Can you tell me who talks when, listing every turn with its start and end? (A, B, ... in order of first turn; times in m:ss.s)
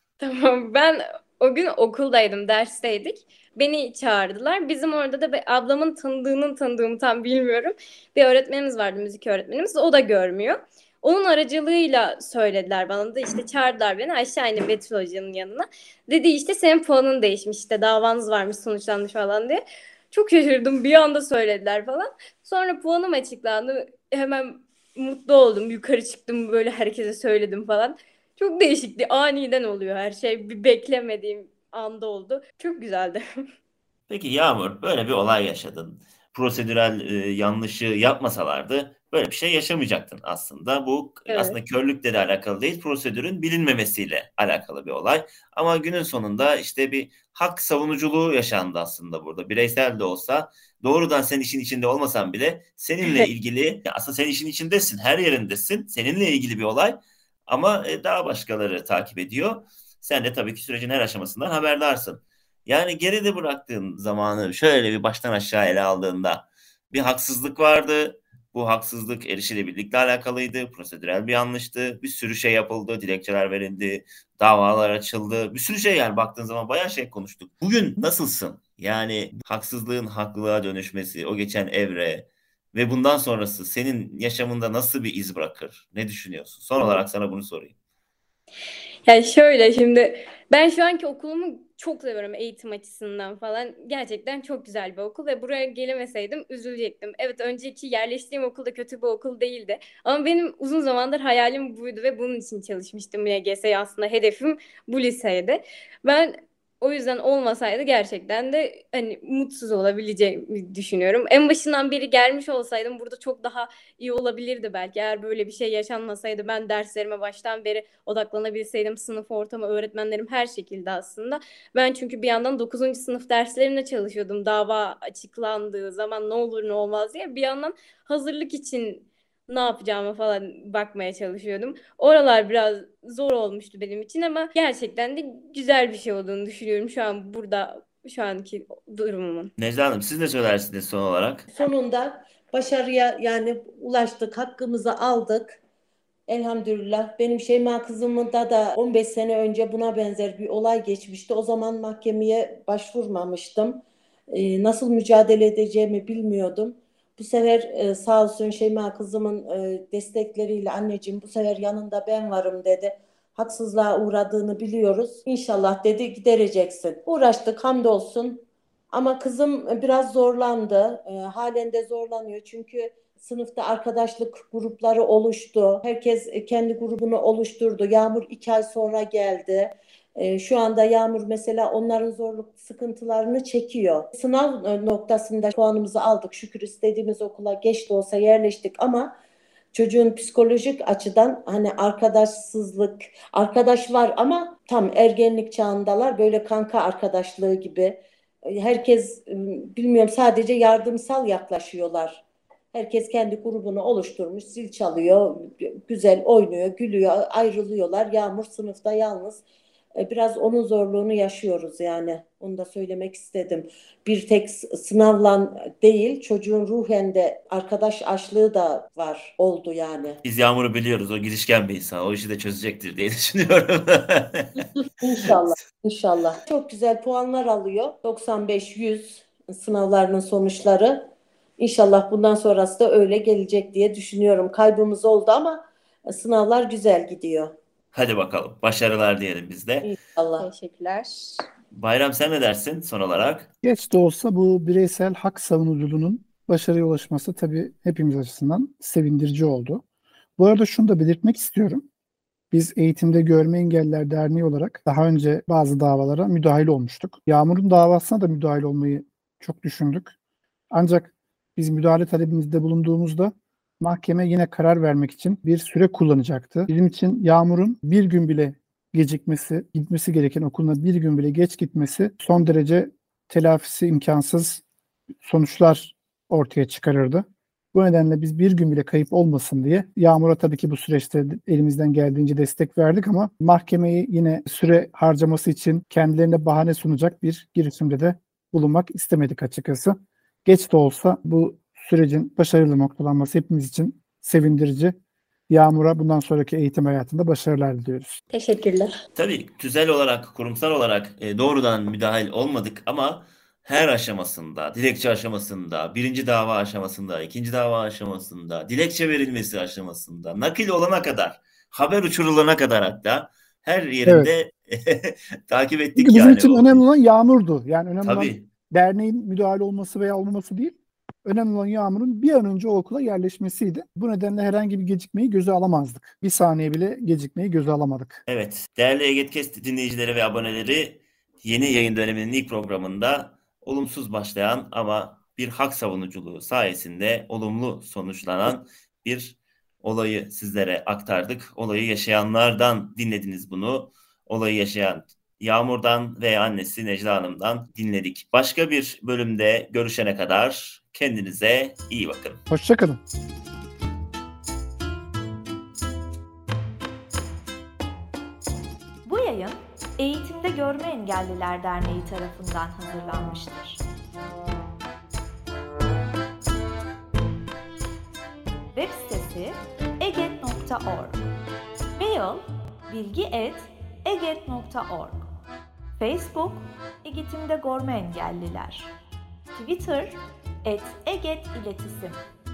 0:00.2-0:33.2 A
0:34.1-1:27.7 B
0:41.3-0:41.6 A
1:29.1-2:19.5 A
2:19.6-2:21.5 B
2:21.5-2:25.6 C
2:26.3-3:09.1 C
3:09.7-3:29.4 C
3:30.0-3:40.2 C
3:40.2-3:44.6 B
3:45.0-3:57.5 C
3:57.9-3:59.9 B
3:59.8-4:00.5 C
4:00.4-4:01.4 A
4:01.7-4:03.5 B
4:03.6-4:09.8 D
4:10.4-4:11.8 D
4:12.5-4:20.1 D
4:20.7-4:34.6 D
4:35.2-4:54.9 D
4:55.5-4:58.2 D
4:58.3-4:59.0 A
4:59.2-5:16.8 B
5:16.0-5:28.2 D
5:18.0-5:18.4 B
5:28.3-5:52.4 B
5:52.5-5:53.0 D
5:59.0-6:03.8 E
6:08.7-6:11.2 E
6:12.0-6:15.2 E
6:16.0-6:18.9 E
6:19.6-6:22.2 E